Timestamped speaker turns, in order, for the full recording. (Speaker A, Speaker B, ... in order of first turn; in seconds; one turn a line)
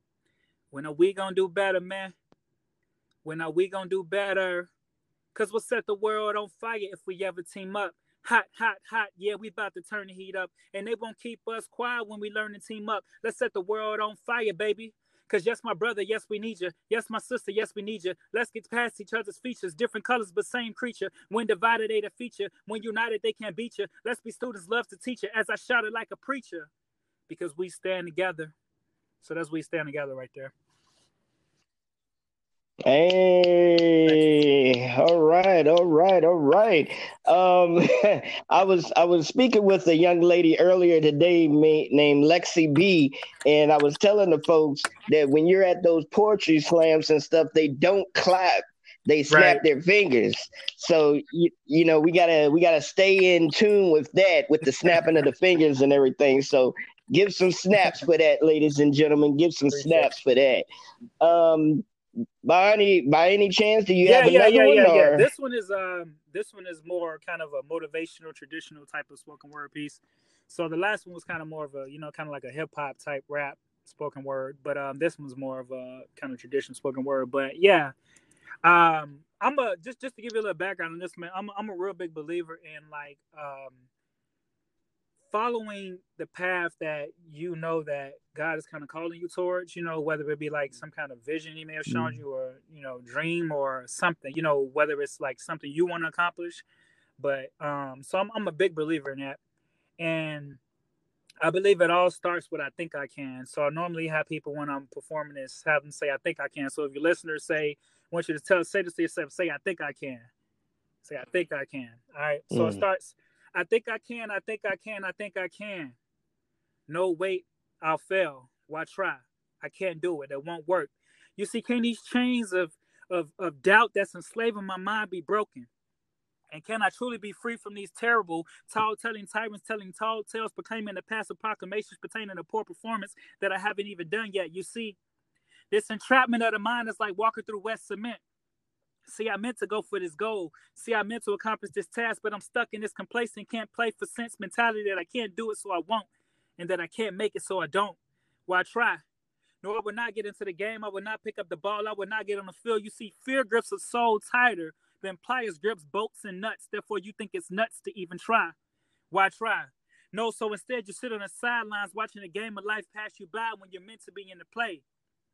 Speaker A: 0.7-2.1
Speaker A: 3.2-4.7
Speaker A: 5.3-26.7
Speaker A: 27.3-28.5
Speaker A: 29.2-30.5
Speaker B: 32.9-60.6
Speaker A: 49.3-49.6
Speaker A: 59.7-60.1
Speaker B: 61.2-61.9
Speaker B: 62.4-65.3
Speaker A: 64.0-77.9
Speaker A: 78.6-83.8
Speaker A: 85.3-96.6
Speaker B: 91.9-92.2
Speaker A: 97.2-99.4
Speaker A: 100.0-100.6
Speaker A: 101.4-110.3
Speaker A: 111.0-116.0
Speaker B: 112.5-112.8
Speaker A: 116.9-125.7
Speaker A: 126.5-135.0
Speaker A: 135.7-138.2
Speaker A: 139.1-149.0
Speaker A: 149.6-158.5
Speaker A: 159.1-164.8